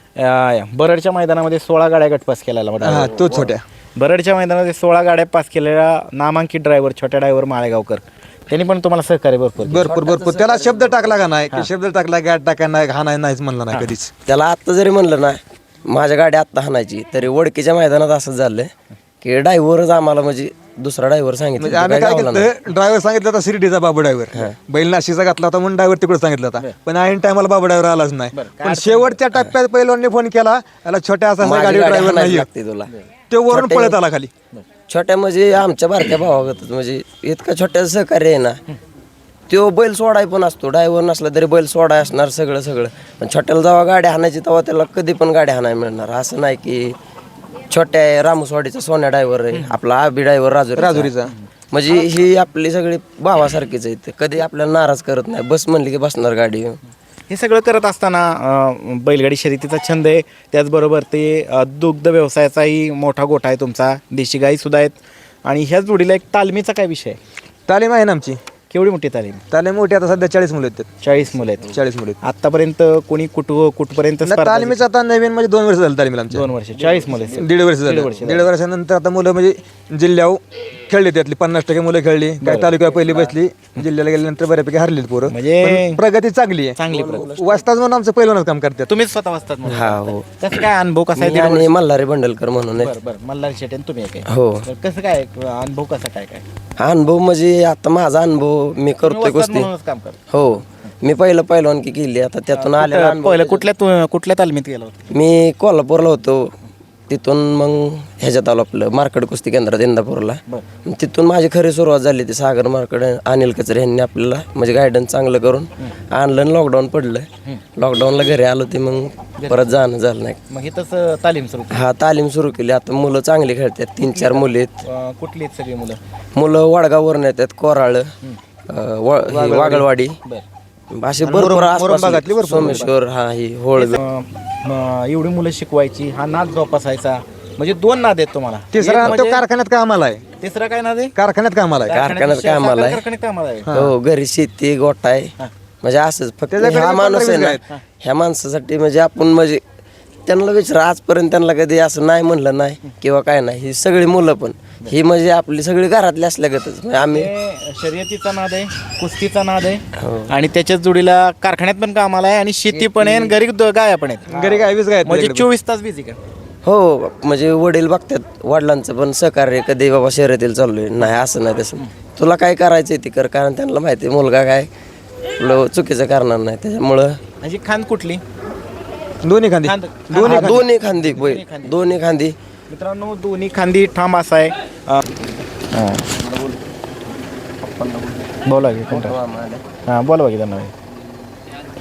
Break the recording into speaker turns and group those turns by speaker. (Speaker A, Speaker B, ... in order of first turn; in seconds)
Speaker A: 0.1-9.9, 28.3-29.2, 57.3-67.2, 68.7-69.4, 71.0-74.8, 76.3-78.5, 82.4-82.7, 85.3-86.0, 86.8-87.3, 88.9-91.7, 92.8-96.4, 99.0-100.2, 102.5-105.1, 119.4-119.7, 120.5-121.9, 124.2-126.0, 129.3-130.4, 132.6-132.9, 133.8-139.4, 140.4-141.2, 141.9-143.7, 157.1-166.2, 177.4-178.2, 179.6-181.8, 182.7-185.0, 185.7-186.1, 188.4-189.1, 189.9-190.7
Speaker B: 2.8-3.6, 9.6-14.1, 21.6-32.5, 33.3-34.3, 50.8-51.3, 67.7-68.4, 69.5-70.9, 71.7-72.2, 74.2-76.5, 77.4-88.9, 129.5-129.8, 131.2-132.9, 138.7-140.2, 141.2-142.0, 143.7-143.9, 146.5-147.6, 164.3-165.5, 179.2-180.6
Speaker C: 2.9-3.5, 9.8-11.2, 14.2-18.7, 19.2-22.5, 31.4-32.9, 33.5-34.0, 34.9-38.6, 39.5-47.0, 47.7-51.1, 51.7-56.8, 76.8-77.5, 82.9-83.3, 86.9-87.7, 89.6-90.2, 91.2-92.9, 94.3-94.7, 96.8-99.7, 100.3-103.6, 105.1-106.5, 107.1-120.4, 121.7-124.8, 126.3-128.1, 128.7-130.2, 130.9-134.0, 141.9-143.0, 143.7-149.6, 150.2-157.3, 160.0-160.3, 162.7-163.3, 166.6-174.7, 175.4-177.2, 180.2-182.3, 186.2-186.6, 187.6-188.2, 188.9-189.6